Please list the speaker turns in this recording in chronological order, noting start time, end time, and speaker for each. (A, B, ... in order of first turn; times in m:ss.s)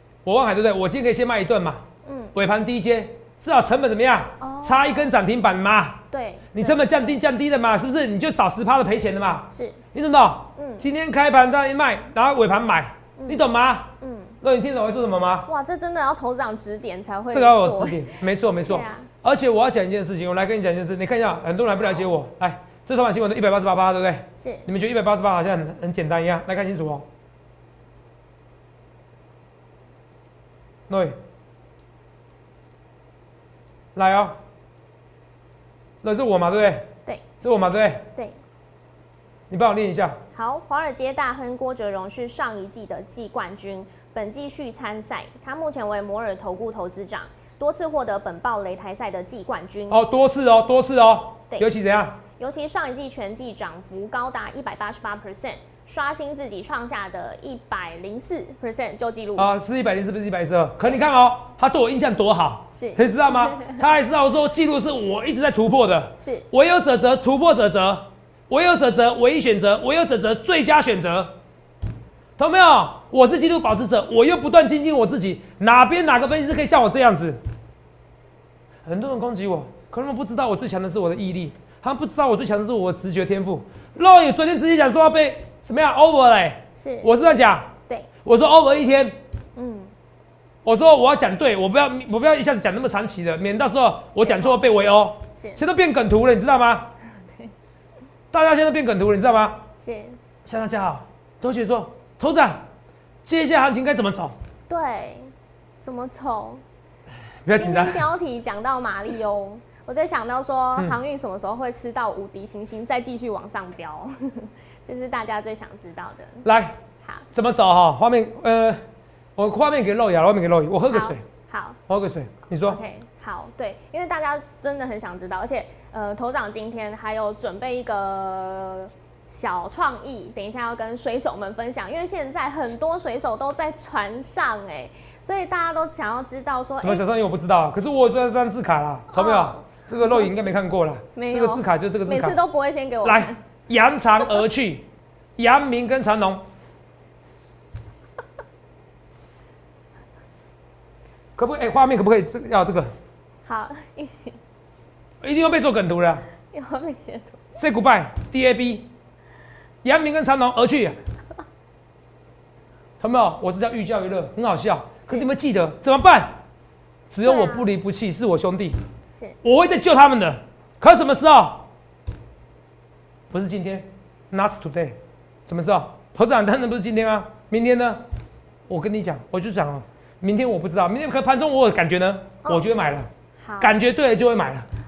0:00.2-0:01.8 A
0:02.0-0:02.3 B
0:02.3-0:15.5 A
0:04.4-0:05.1 B
0:06.1-0:07.2 B
0:09.5-0:09.8 B
0:10.6-0:10.9 B
0:13.2-0:13.5 B
0:14.0-0:14.4 B
0:15.4-0:19.1 B
0:17.3-0:27.0 A
0:24.4-0:24.7 B
0:30.9-0:31.2 A
0:33.9-0:34.4 A
0:36.0-0:36.9 A
0:37.4-0:38.1 A
0:39.5-0:40.2 A
0:40.3-0:50.0 B
0:49.9-0:52.2 A
0:52.4-0:59.5 B
0:59.4-1:11.4 A
1:02.7-1:03.8 B
1:06.2-1:06.5 B
1:12.4-1:17.4 A
1:18.8-1:27.7 A
1:26.8-1:27.1 B
1:28.2-1:29.2 A
1:29.6-1:29.9 B
1:30.6-1:36.9 A
1:34.2-1:34.7 B
1:38.3-1:39.6 A
1:39.8-1:40.2 B
1:40.4-1:42.6 A
1:43.2-1:44.3 A
1:44.7-1:46.6 B
1:47.4-1:48.0 A
1:47.6-1:56.4 B
1:56.4-1:56.8 A
1:57.3-1:58.8 A
1:59.4-2:01.2 A
2:00.9-2:01.8 B
2:01.9-2:02.8 A
2:02.6-2:17.0 B
2:16.8-2:22.4 A
2:19.1-2:20.4 B
2:21.1-2:23.4 B
2:23.0-2:26.4 A
2:31.4-2:32.9 A
2:33.4-2:34.4 B
2:35.2-2:36.2 A
2:36.5-2:37.4 B
2:37.5-2:38.9 A
2:39.8-2:41.0 A
2:43.0-2:46.4 A
2:47.1-2:48.8 A
2:47.2-2:47.7 B
2:49.4-2:51.7 A
2:53.3-2:58.0 A
2:58.7-3:04.7 A
3:03.4-3:03.7 B